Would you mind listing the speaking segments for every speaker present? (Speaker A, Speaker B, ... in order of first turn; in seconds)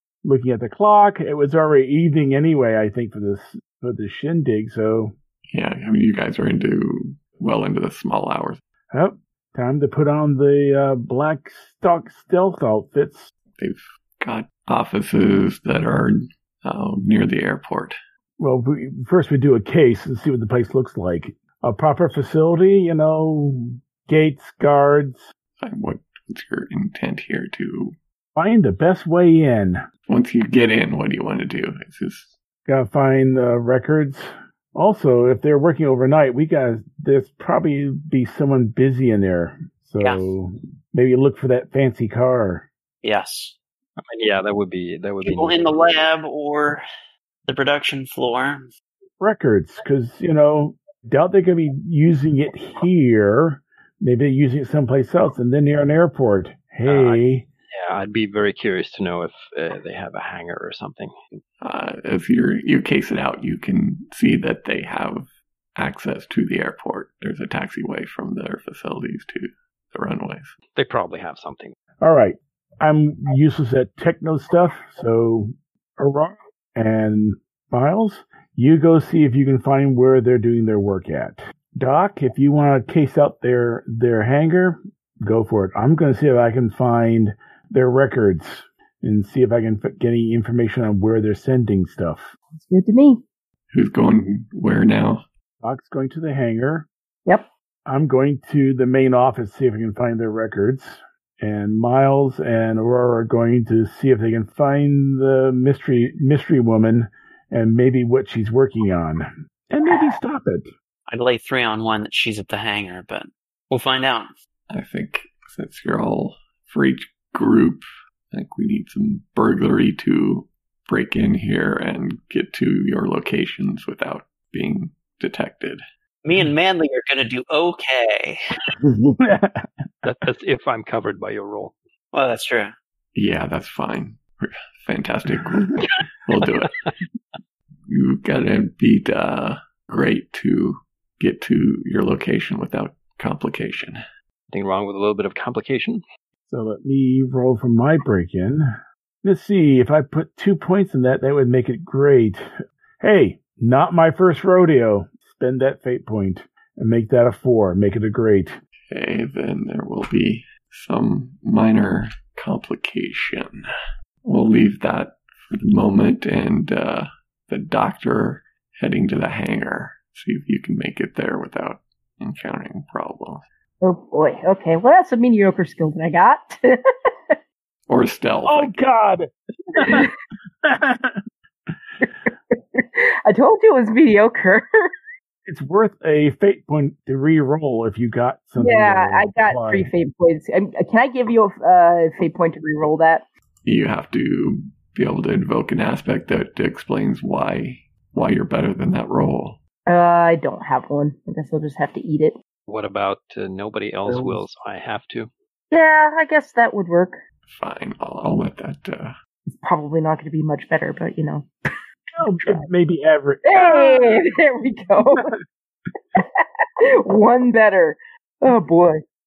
Speaker A: 0.2-5.1, 8.9-13.3, 18.4-25.2, 28.3-29.8, 32.6-42.7, 49.2-57.5, 72.0-92.3, 95.6-96.9, 97.8-110.7, 128.8-129.7, 146.5-148.7, 149.2-158.6, 178.4-180.1, 180.6-181.2, 185.4-189.9, 212.2-214.2
Speaker B: 5.5-8.6, 13.6-18.0, 25.6-27.9, 30.1-32.4, 61.6-70.5, 93.7-95.2, 114.7-125.8, 133.1-136.7, 137.9-144.0, 158.9-163.6, 164.2-173.4, 177.9-178.8, 193.6-199.6, 207.4-209.1
Speaker C: 40.0-40.3, 43.0-43.5, 45.2-46.8, 47.5-48.7, 111.1-114.3, 126.2-128.4, 132.1-132.7
Speaker D: 44.0-45.8, 56.9-57.2, 57.7-61.4, 70.7-71.8, 130.0-131.7, 136.6-136.9, 144.5-146.0, 202.7-205.3
Speaker E: 92.5-93.2, 173.8-176.7, 179.9-180.1, 182.0-184.6, 188.6-193.2, 199.9-202.3, 205.7-207.2, 209.4-211.8, 213.4-215.3, 216.2-219.0